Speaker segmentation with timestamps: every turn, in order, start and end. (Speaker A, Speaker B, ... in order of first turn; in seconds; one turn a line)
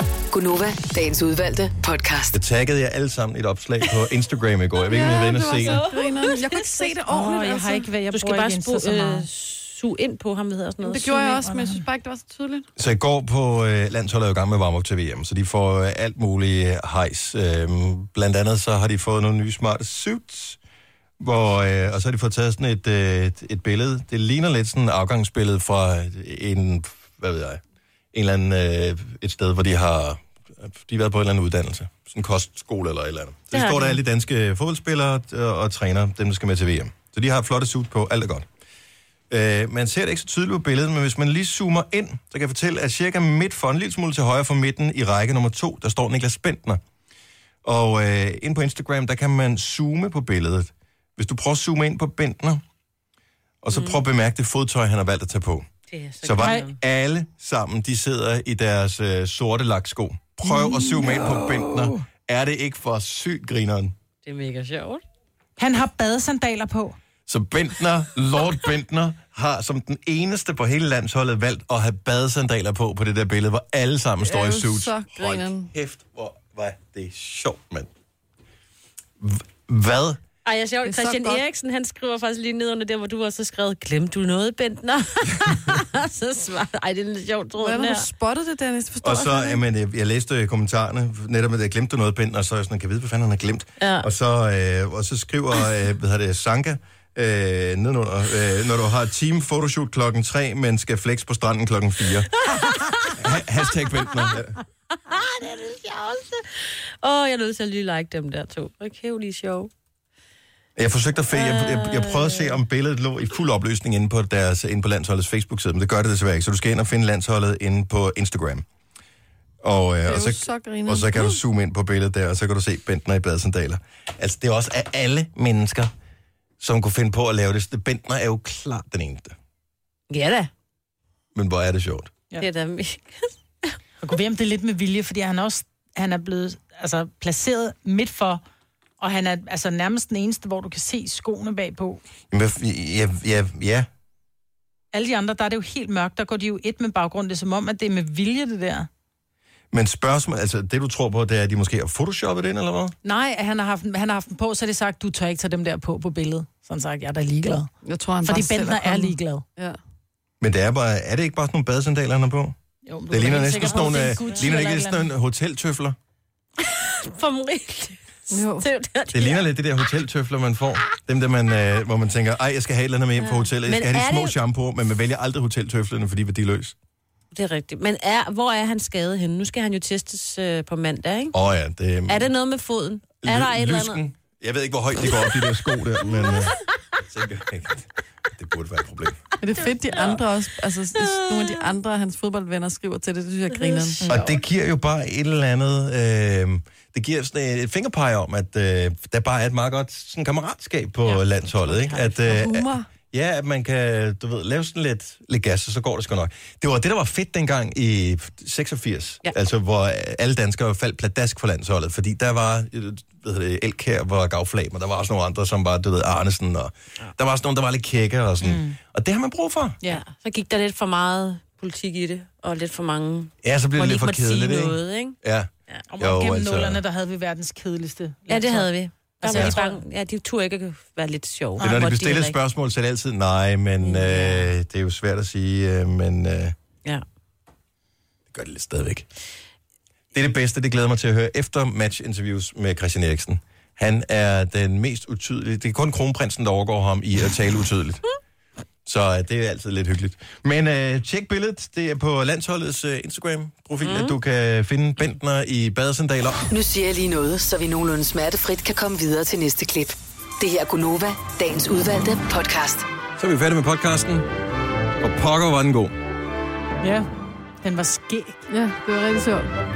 Speaker A: 0.3-2.4
Speaker B: 2.3-5.8
Speaker C: 4.8-7.8
Speaker D: 4.9-6.5
Speaker E: 6.4-9.3
Speaker D: 8.1-11.1
Speaker C: 10.8-12.7
Speaker E: 11.2-11.8
Speaker B: 12.8-20.6
Speaker B: 21.2-27.6
Speaker B: 28.1-38.5
Speaker D: 33.5-34.0
Speaker B: 39.3-46.8
Speaker B: 47.6-52.6
Speaker B: 53.6-55.7
Speaker D: 53.7-54.0
Speaker D: 55.9-56.8
Speaker B: 56.2-64.0
Speaker E: 56.4-56.6
Speaker E: 60.5-62.0
Speaker D: 64.2-65.0
Speaker E: 65.6-67.0
Speaker B: 67.3-77.9
Speaker C: 74.2-75.7
Speaker B: 79.2-80.2
Speaker D: 80.5-88.1
Speaker C: 80.8-81.4
Speaker C: 87.6-89.6
Speaker B: 89.0-102.3
Speaker D: 93.8-94.1
Speaker D: 102.4-103.2
Speaker B: 103.2-104.5
Speaker D: 105.0-109.7
Speaker B: 110.8-118.7
Speaker D: 111.3-112.6
Speaker B: 119.6-125.9
Speaker C: 120.1-121.4
Speaker B: 126.6-129.4
Speaker D: 130.1-130.5
Speaker B: 131.3-132.1
Speaker D: 132.4-133.8
Speaker E: 134.0-138.4
Speaker E: 139.0-142.0
Speaker B: 142.3-143.9
Speaker E: 144.9-148.9
Speaker B: 149.7-153.0
Speaker E: 153.1-157.7
Speaker C: 157.8-159.8
Speaker E: 158.2-159.4
Speaker B: 160.4-162.6
Speaker E: 162.9-165.1
Speaker B: 163.1-166.0
Speaker D: 163.7-164.4
Speaker D: 166.6-169.4
Speaker C: 168.3-168.7
Speaker B: 169.1-176.8
Speaker D: 173.2-174.3
Speaker D: 177.3-181.3
Speaker B: 181.3-182.3
Speaker D: 182.1-184.0
Speaker B: 183.2-189.2
Speaker C: 189.4-194.1
Speaker D: 189.9-190.2
Speaker D: 191.0-191.6
Speaker B: 194.1-219.8
Speaker D: 201.1-202.2
Speaker C: 202.3-202.9
Speaker E: 218.5-218.8
Speaker D: 219.8-225.2
Speaker B: 223.4-226.8
Speaker E: 225.9-229.8
Speaker D: 228.3-232.4
Speaker B: 229.3-229.6
Speaker B: 231.6-236.6
Speaker D: 233.8-234.5
Speaker B: 238.3-239.1
Speaker B: 240.1-248.0
Speaker B: 248.8-256.4
Speaker D: 253.8-254.2
Speaker A: 256.5-262.8
Speaker B: 263.2-264.3
Speaker B: 265.0-265.9
Speaker E: 266.8-267.1
Speaker E: 267.6-268.4
Speaker C: 268.5-269.5